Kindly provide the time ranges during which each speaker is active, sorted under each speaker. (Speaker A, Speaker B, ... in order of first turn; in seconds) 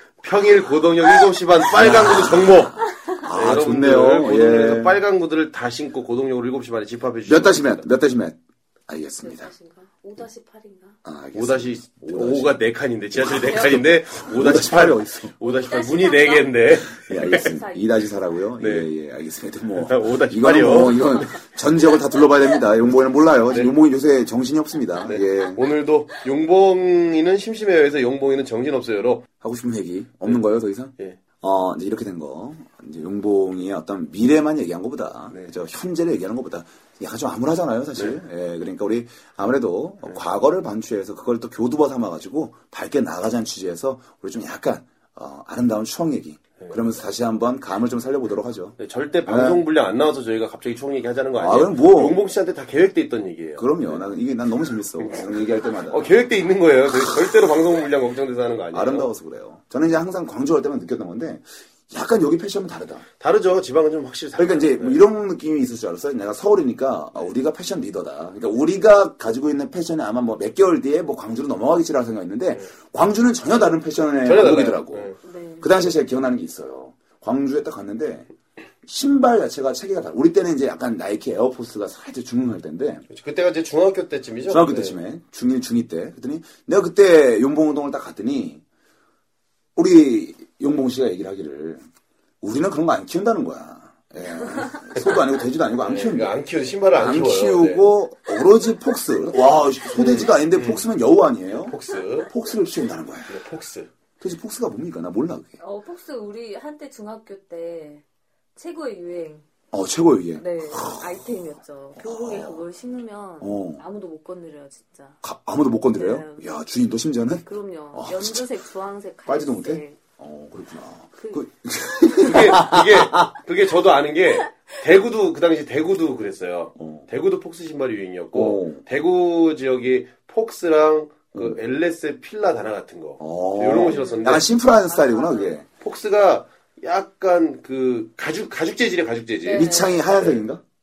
Speaker A: 0.2-7.9, 11.3-17.5, 18.6-18.9, 19.7-21.4, 23.5-23.8, 25.1-29.3, 35.3-35.6, 48.8-54.1, 55.0-59.1, 63.2-65.0, 74.2-75.2, 83.1-85.0, 95.8-97.9, 100.0-100.8, 101.5-102.3, 103.3-103.9, 122.2-134.5, 135.8-140.4
Speaker B: 1.7-5.0, 7.3-9.5, 11.1-12.6, 13.2-15.3, 17.0-25.6, 29.4-49.6, 51.4-52.2, 53.6-56.2, 58.7-63.1, 64.4-78.3, 78.8-83.1, 84.5-88.6, 89.8-91.8, 92.4-96.3, 97.0-101.8, 102.3-103.4, 104.2-105.6, 109.7-111.3, 112.0-112.7, 113.4-113.8, 115.2-118.5, 119.3-123.3, 126.8-127.1, 128.3-128.8, 133.2-135.7, 139.5-140.6
Speaker C: 2.8-3.2, 9.2-11.0, 15.4-18.1, 75.2-75.7, 105.6-108.0, 108.6-109.5, 110.4-115.2, 115.9-116.5, 117.4-120.0, 121.2-121.5, 122.0-122.3, 133.8-135.6, 139.4-140.1